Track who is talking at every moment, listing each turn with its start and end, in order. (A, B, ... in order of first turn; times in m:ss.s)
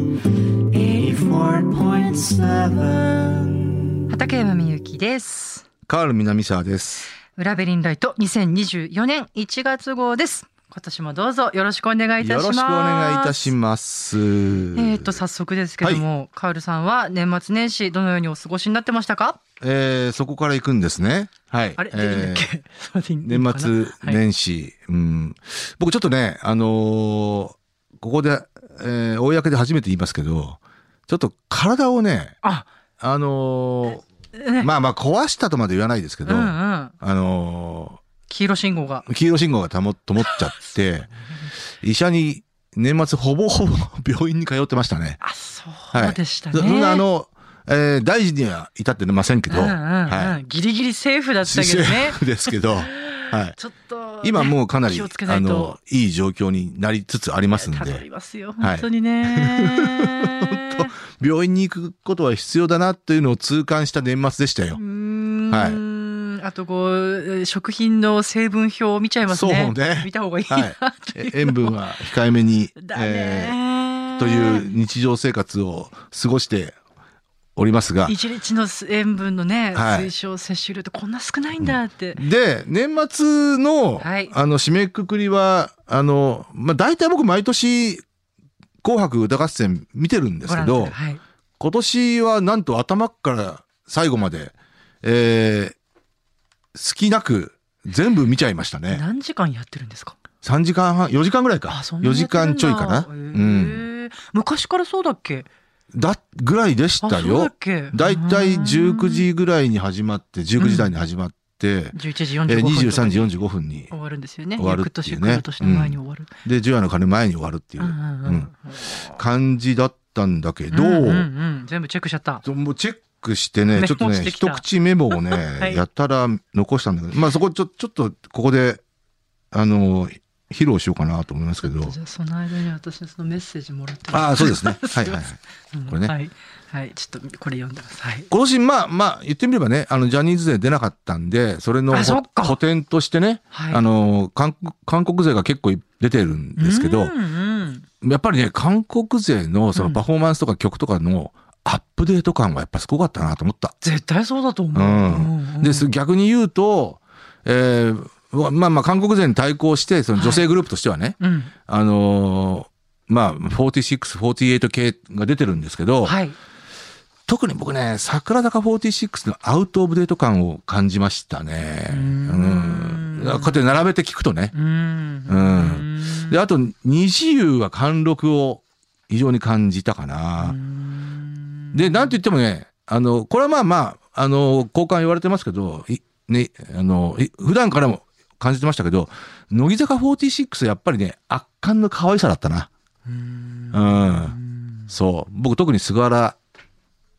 0:00.7-0:03.7 A
0:04.1-0:05.6 B
0:05.9-0:07.1 C
0:07.3-0:13.5 B
0:12.2-0:15.2 C
0:14.8-0:19.4 B
0:19.6-0:22.5 C
0:21.8-0:24.2 B
0:23.2-0:32.4 C
0:32.4-0:32.7 B
0:33.0-0:34.0 C
0:34.4-0:34.7 B
0:34.6-0:38.0 C
0:36.2-0:36.9 B
0:38.3-0:39.1 B
0:39.1-0:41.1 C
0:40.2-0:41.1 B
0:41.8-0:45.2 C
0:45.2-0:47.0 B
0:45.9-0:50.4 C
0:49.5-0:55.8 B
0:51.4-0:53.6 C
0:54.2-0:58.0 C
0:57.6-1:00.9 B
0:58.6-1:04.8 C
1:04.7-1:11.8 B
1:05.5-1:05.8 C
1:09.3-1:13.6 C
1:12.8-1:14.7 B
1:14.2-1:16.8 C
1:17.6-1:18.2 C
1:18.1-1:22.2 B
1:19.7-1:20.1 C
1:21.6-1:28.0 C
1:24.0-1:24.3 B
1:28.8-1:31.0 C
1:30.5-1:31.2 B
1:31.6-1:35.8 C
1:36.7-1:39.0 C
1:38.9-1:40.2 B
1:40.4-1:43.8 C
1:41.7-1:45.5 B
1:45.9-1:53.9 C
1:47.0-1:49.3 B
1:50.6-1:51.0 B
1:51.9-1:53.4 B
1:53.9-1:56.3 B
1:54.6-1:58.5 C
1:57.8-1:59.2 B
1:59.1-2:01.3 C
2:00.7-2:02.4 B
2:02.4-2:08.8 C
2:03.7-2:05.8 B
2:09.5-2:12.0 C
2:11.8-2:15.2 B
2:14.1-2:16.1 C
2:15.7-2:18.3 B
2:18.3-2:27.1 C
2:21.9-2:22.6 B
2:23.5-2:23.8 B
2:26.6-2:27.8 B
2:28.0-2:33.8 C
2:29.8-2:30.0 B
2:33.8-2:35.9 B
2:34.7-2:46.2 C
2:40.2-2:40.5 B
2:41.2-2:41.5 B
2:46.0-2:46.4 B
2:47.3-2:54.5 C
2:51.9-2:53.6 B
2:54.5-2:56.4 B
2:55.3-3:00.6 C
3:00.4-3:02.2 B
3:01.7-3:12.7 C
3:13.1-3:14.9 B
3:13.7-3:14.4 C
3:14.9-3:16.4 C